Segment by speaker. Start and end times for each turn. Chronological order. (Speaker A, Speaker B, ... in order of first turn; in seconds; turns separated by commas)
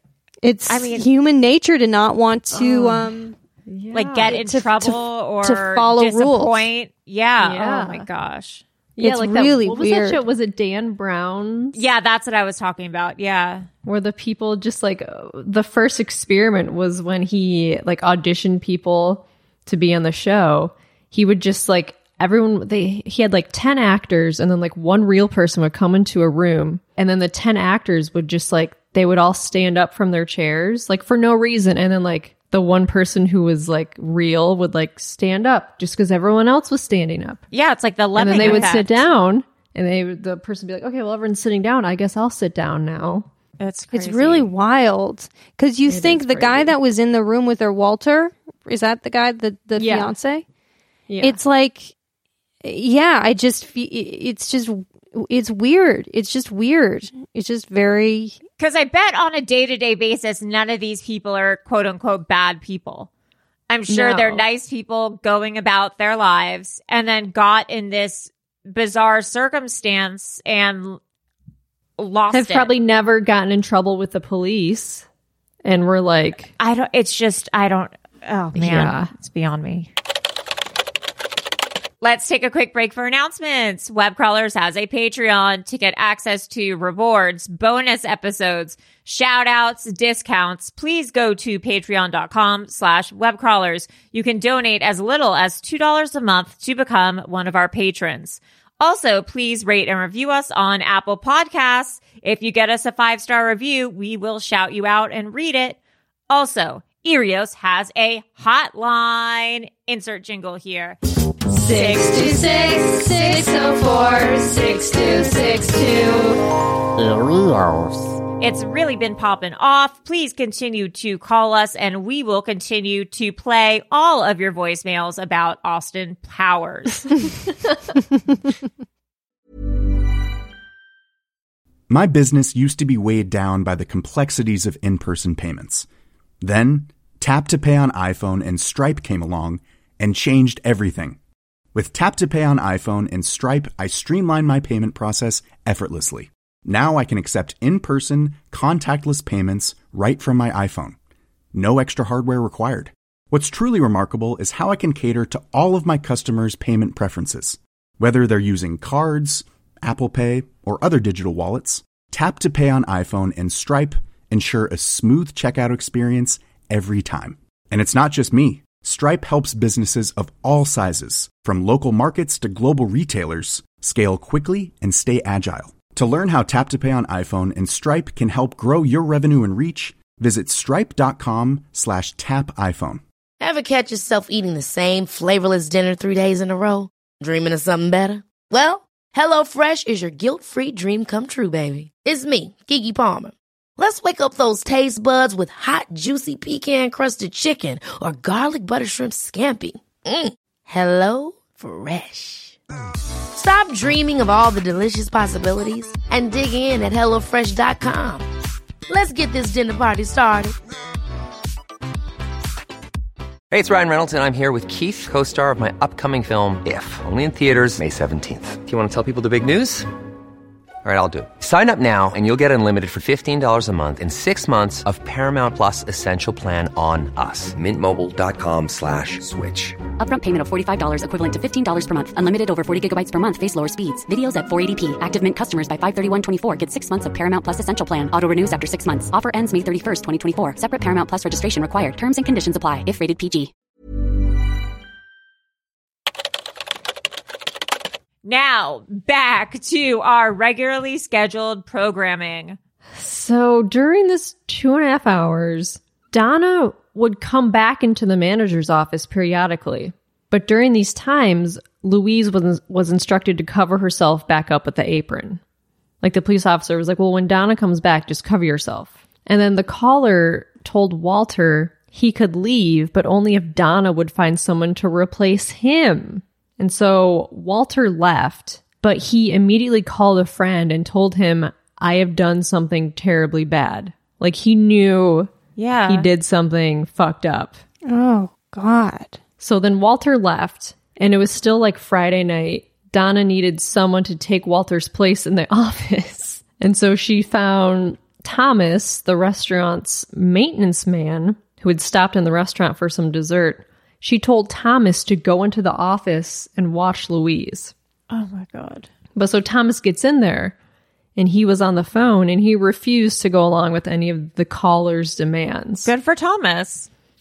Speaker A: 0.4-3.4, Speaker B: 0.7-1.1, Speaker C: 2.5-4.5, Speaker B: 3.9-8.6, Speaker A: 4.2-6.7, Speaker C: 7.4-8.1, Speaker C: 9.0-11.8, Speaker A: 9.0-10.2, Speaker B: 11.7-13.7, Speaker C: 13.8-37.4, Speaker B: 37.5-39.1, Speaker C: 38.2-43.3, Speaker A: 38.4-38.7, Speaker B: 43.6-44.5, Speaker A: 43.9-50.5, Speaker C: 45.9-46.8, Speaker C: 49.8-50.1, Speaker C: 51.1-51.4, Speaker A: 51.2-52.0, Speaker A: 52.6-58.4, Speaker B: 58.6-63.1, Speaker B: 63.7-71.0, Speaker C: 63.9-64.5, Speaker B: 72.0-72.7, Speaker C: 72.3-75.1, Speaker C: 75.6-76.5, Speaker B: 76.6-79.9, Speaker C: 78.5-79.1, Speaker B: 82.0-105.8, Speaker B: 106.3-111.0, Speaker C: 111.5-116.4, Speaker B: 111.6-112.3, Speaker B: 118.4-127.2, Speaker D: 131.9-135.9, Speaker D: 136.4-141.2, Speaker D: 141.7-151.0, Speaker D: 151.5-183.0, Speaker E: 183.4-202.6, Speaker E: 203.3-208.3, Speaker E: 208.9-210.5, Speaker F: 213.5-219.9, Speaker F: 220.8-229.8, Speaker G: 230.0-243.5, Speaker B: 248.2-252.6, Speaker C: 252.9-265.4, Speaker C: 266.0-285.3, Speaker B: 285.6-286.1, Speaker C: 285.9-287.6, Speaker A: 287.9-289.2, Speaker C: 289.4-307.7, Speaker B: 308.1-308.9, Speaker C: 309.1-310.6, Speaker C: 311.2-315.9, Speaker B: 315.9-316.9